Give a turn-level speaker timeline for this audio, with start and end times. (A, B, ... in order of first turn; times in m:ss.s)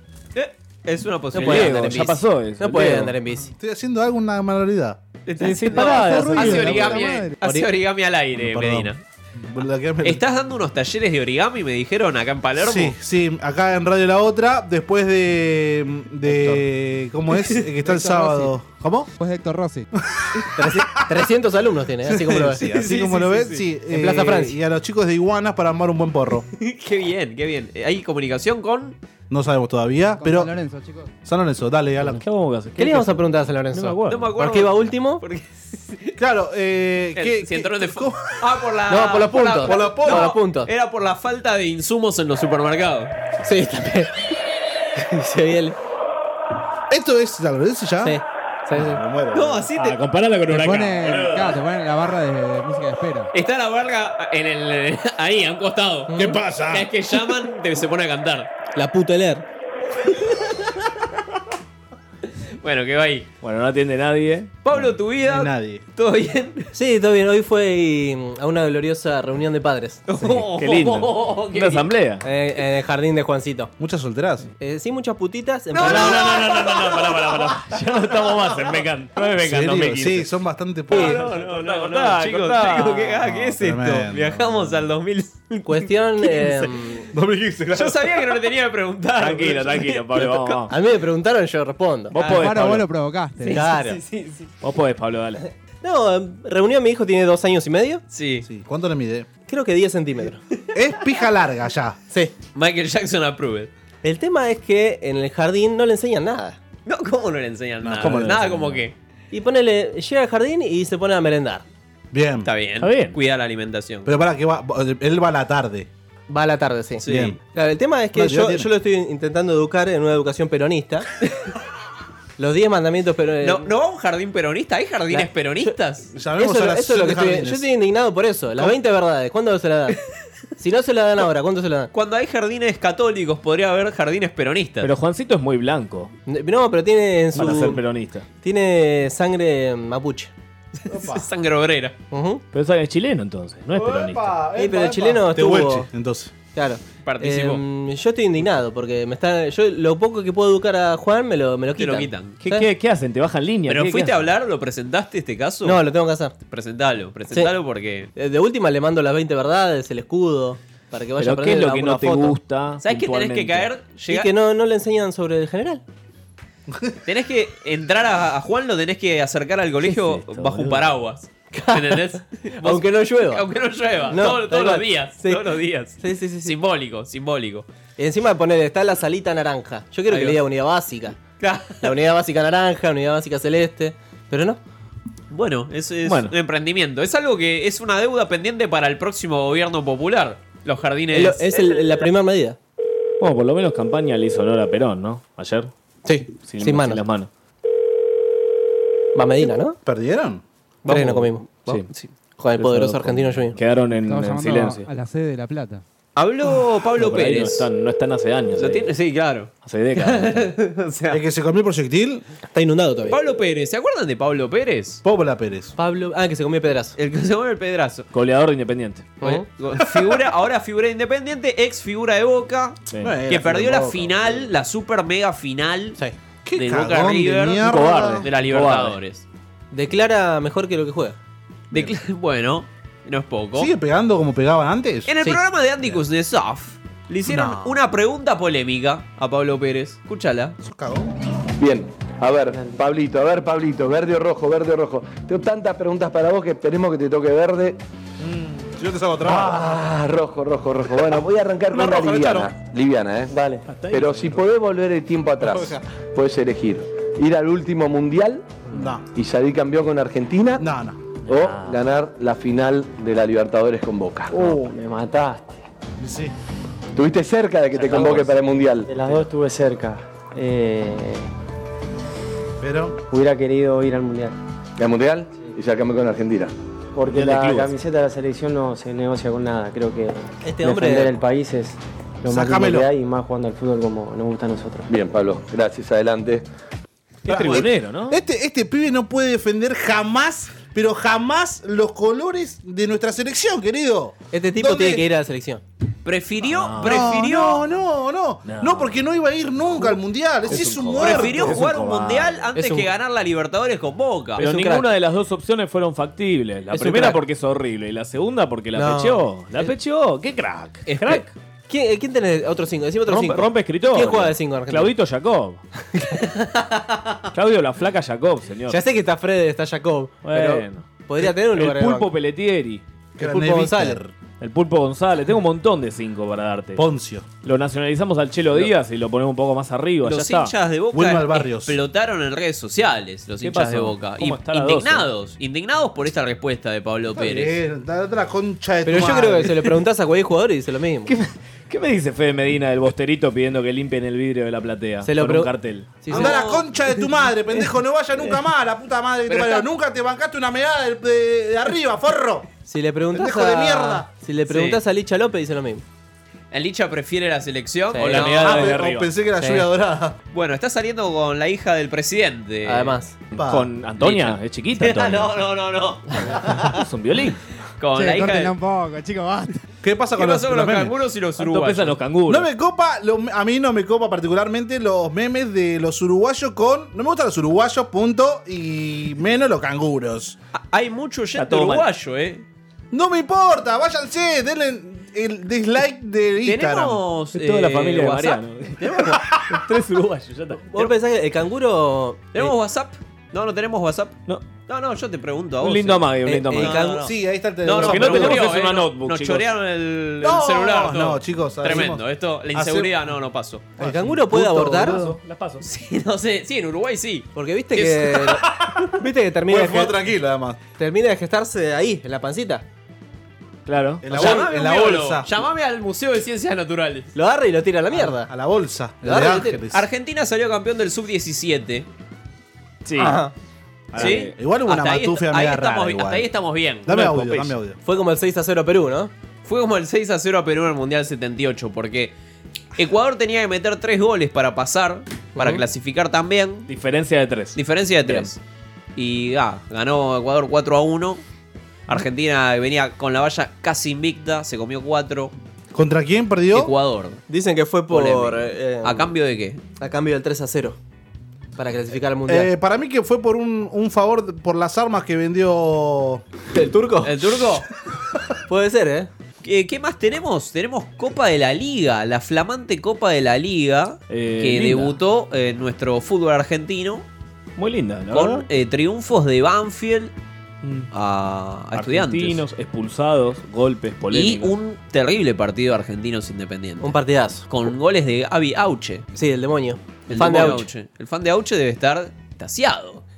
0:00.3-0:02.2 A
0:01.3-0:03.2 B
0:02.6-0:03.5 C
0:03.5-0:05.0 D
0:05.3-0:09.0 A
0:05.4-0:06.8 B
0:05.7-0:07.4 E
0:05.9-0:07.0 D
0:08.3-0:08.9 D
0:09.5-0:10.2 D
0:10.0-0:13.0 A
0:12.6-0:19.1 D
0:16.3-0:16.6 B
0:17.9-0:18.3 E
0:19.2-0:19.9 E
0:20.0-0:21.1 D
0:20.6-0:22.7 C
0:22.1-0:26.4 D
0:22.6-0:23.6 A
0:23.9-0:24.6 C
0:26.5-0:29.0 A
0:29.3-0:30.5 D
0:30.2-0:31.1 E
0:31.2-0:32.2 D
0:32.1-0:34.3 B
0:32.8-0:35.2 C
0:34.1-0:36.2 A
0:36.2-0:38.2 D
0:37.2-0:43.1 A
0:38.9-0:40.7 C
0:39.6-0:40.3 D
0:43.4-0:44.3 C
0:45.0-0:45.8 C
0:46.9-0:48.2 D
0:48.0-0:49.0 C
0:48.8-0:49.7 D
0:49.3-0:50.0 A
0:49.8-0:51.5 B
0:50.5-0:53.3 E
0:53.3-0:58.5 A
0:56.1-0:56.4 C
0:56.2-0:56.9 D
0:58.8-0:59.4 C
1:02.6-1:03.3 A
1:03.4-1:04.6 B
1:04.6-1:06.7 A
1:05.2-1:05.8 D
1:06.7-1:10.3 C
1:10.1-1:11.9 A
1:10.5-1:12.2 B
1:12.2-1:13.7 C
1:13.8-1:14.5 D
1:14.6-1:16.4 C
1:15.7-1:17.4 A
1:15.8-1:20.3 B
1:19.4-1:21.2 D
1:20.9-1:26.7 A
1:20.9-1:23.1 B
1:23.3-1:24.6 D
1:25.6-1:27.1 C
1:27.1-1:28.0 D
1:27.7-1:30.6 A
1:29.2-1:30.7 B
1:30.7-1:32.6 C
1:32.1-1:32.8 B
1:32.3-1:33.7 E
1:33.4-1:34.5 A
1:33.5-1:34.0 C
1:34.6-1:35.4 B
1:35.8-1:38.0 C
1:38.1-1:38.4 A
1:38.4-1:39.3 D
1:39.5-1:40.4 C
1:40.7-1:42.0 D
1:42.5-1:43.7 A
1:44.0-1:46.6 C
1:46.8-1:48.9 A
1:47.8-1:48.5 D
1:48.0-1:48.8 B
1:49.3-1:51.6 C
1:52.1-1:52.5 D
1:52.4-1:54.1 A
1:52.8-1:53.2 B
1:54.0-1:55.9 D
1:56.3-2:01.1 C
1:57.0-1:57.4 A
1:57.1-1:57.4 D
1:58.1-1:58.7 D
2:02.4-2:03.7 C
2:03.4-2:06.1 A
2:05.1-2:05.8 C
2:06.1-2:07.6 D
2:06.4-2:10.0 C
2:10.6-2:11.9 C
2:11.9-2:14.9 A
2:14.8-2:16.1 B
2:16.3-2:17.8 C
2:17.3-2:18.2 B
2:18.4-2:20.3 C
2:20.8-2:21.9 A
2:20.9-2:21.2 D
2:22.1-2:22.4 C
2:22.5-2:24.4 B
2:23.7-2:26.3 D
2:24.6-2:25.9 C
2:26.5-2:32.7 C
2:27.0-2:27.6 A
2:31.8-2:32.4 A
2:32.4-2:34.2 B
2:33.7-2:35.8 A
2:35.6-2:36.3 C
2:36.5-2:38.1 A
2:38.2-2:42.4 C
2:41.2-2:43.7 B
2:42.8-2:44.3 A
2:44.1-2:45.8 C
2:46.7-2:46.9 D
2:47.0-2:57.7 A
2:49.8-2:50.9 B
2:51.5-2:53.4 C
2:54.1-2:56.5 C
2:58.0-3:01.2 C
3:00.1-3:00.4 A
3:01.4-3:01.9 A
3:01.8-3:04.6 C
3:05.3-3:12.0 A
3:06.0-3:06.3 B
3:11.1-3:12.6 C
3:13.2-3:15.7 B
3:16.0-3:17.0 C
3:16.4-3:17.3 B
3:19.1-3:19.8 C
3:19.9-3:20.4 D
3:20.9-3:21.8 C
3:20.9-3:21.2 A
3:20.9-3:21.9 B
3:22.4-3:23.6 C
3:22.6-3:24.9 B
3:24.0-3:25.8 E
3:26.2-3:27.6 A
3:27.0-3:28.9 B
3:28.6-3:31.2 A
3:29.6-3:30.5 B
3:31.1-3:32.2 D
3:32.5-3:33.2 C
3:33.1-3:35.0 A
3:35.0-3:35.7 D
3:35.8-3:37.0 C
3:37.0-3:38.1 A
3:38.1-3:39.2 B
3:39.2-3:46.0 A
3:42.9-3:43.2 B
3:43.0-3:44.5 D
3:46.4-3:48.3 D
3:46.5-3:49.2 A
3:47.6-3:49.0 B
3:49.7-3:51.2 C
3:51.7-3:53.7 A
3:53.5-3:55.1 D
3:55.0-4:00.6 A
3:57.2-3:57.8 D
4:00.6-4:01.1 D
4:01.6-4:07.8 F
4:08.2-4:09.6 D
4:09.2-4:20.6 F
4:11.7-4:12.5 D
4:13.3-4:13.6 G
4:13.7-4:14.4 B
4:15.4-4:15.8 D
4:18.7-4:19.0 D
4:20.6-4:21.0 D
4:21.3-4:24.6 F
4:21.3-4:21.8 B
4:24.3-4:25.6 G
4:26.0-4:26.3 D
4:27.0-4:29.0 F
4:27.7-4:28.4 B
4:28.9-4:31.3 G
4:32.6-4:33.0 D
4:33.1-4:34.4 G
4:34.8-4:36.5 F
4:36.9-4:44.9 G
4:37.1-4:37.7 B
4:40.4-4:41.2 C
4:42.2-4:42.9 D
4:44.9-4:46.4 F
4:47.2-4:48.2 B
4:47.2-4:55.0 D
4:54.3-4:55.6 C
4:56.0-4:57.6 A
4:56.4-4:57.1 B
4:56.8-5:02.3 D
4:58.4-4:59.0 B
5:00.5-5:02.0 B
5:00.9-5:04.4 A
5:02.5-5:02.9 C
5:04.4-5:04.9 C
5:04.4-5:11.2 B
5:06.7-5:07.2 C
5:08.8-5:09.7 C
5:10.9-5:11.2 A
5:11.7-5:14.9 C
5:13.1-5:15.6 B
5:17.3-5:18.8 B
5:18.7-5:22.1 C
5:20.2-5:22.8 B
5:23.2-5:24.1 D
5:23.2-5:24.0 C
5:24.4-5:26.8 B
5:26.8-5:27.3 D
5:27.4-5:30.5 B
5:30.0-5:37.6 A
5:30.9-5:31.8 D
5:33.4-5:35.1 B
5:37.2-5:39.5 D
5:38.8-5:41.1 C
5:41.0-5:46.0 B
5:45.0-5:46.4 C
5:46.1-5:46.9 A
5:46.1-5:52.5 D
5:49.3-5:49.6 A
5:52.6-5:55.8 C
5:53.1-5:54.1 D
5:54.5-5:54.8 A
5:56.5-5:58.8 A
5:57.9-5:58.7 C
5:58.1-5:59.1 B
5:58.1-6:00.1 D
5:59.4-5:59.7 C
6:00.3-6:03.0 A
6:02.6-6:03.1 C
6:03.4-6:03.7 D
6:03.4-6:05.4 B
6:04.0-6:06.8 A
6:06.7-6:07.4 B
6:07.8-6:08.6 A
6:07.9-6:09.6 E
6:09.8-6:10.9 D
6:10.2-6:12.0 A
6:11.4-6:12.5 B
6:12.3-6:20.4 D
6:20.5-6:22.4 A
6:21.4-6:21.9 B
6:22.9-6:27.0 D
6:26.4-6:28.4 A
6:27.3-6:30.6 B
6:28.8-6:29.1 C
6:30.7-6:32.3 C
6:32.3-6:43.7 A
6:35.6-6:36.9 B
6:36.2-6:37.0 C
6:37.0-6:38.5 D
6:37.7-6:39.5 B
6:40.2-6:42.9 D
6:43.8-6:45.1 D
6:43.8-6:45.1 C
6:44.4-6:45.6 B
6:45.6-6:48.4 A
6:47.4-6:48.4 C
6:49.0-6:49.9 C
6:49.5-6:50.6 D
6:50.8-6:52.6 C
6:53.6-6:54.3 B
6:54.0-6:55.4 D
6:54.1-6:57.1 A
6:57.1-6:58.3 C
6:57.9-6:59.8 D
6:59.0-6:59.6 C
6:59.7-7:01.9 A
7:02.8-7:03.2 B
7:03.0-7:03.3 C
7:03.9-7:06.3 D
7:04.0-7:04.3 B
7:04.0-7:07.5 A
7:06.9-7:07.8 D
7:07.8-7:09.1 C
7:09.4-7:12.1 A
7:12.8-7:16.7 A
7:15.4-7:15.6 C
7:16.7-7:18.3 B
7:17.5-7:18.4 A
7:19.0-7:21.2 A
7:21.9-7:25.3 A
7:25.7-7:26.7 D
7:26.5-7:27.2 A
7:27.3-7:29.1 C
7:27.9-7:29.6 A
7:29.8-7:30.8 C
7:31.6-7:32.5 C
7:32.3-7:36.2 D
7:36.5-7:37.2 C
7:37.0-7:37.7 A
7:38.5-7:39.1 C
7:39.4-7:47.0 A
7:44.1-7:45.0 B
7:47.6-7:48.5 B
7:48.1-7:50.1 A
7:50.6-7:50.9 B
7:50.9-7:52.4 A
7:51.7-7:54.5 B
7:54.1-7:57.0 A
7:56.8-7:57.5 C
7:57.5-7:59.0 A
7:59.1-8:00.7 C
8:00.1-8:03.0 A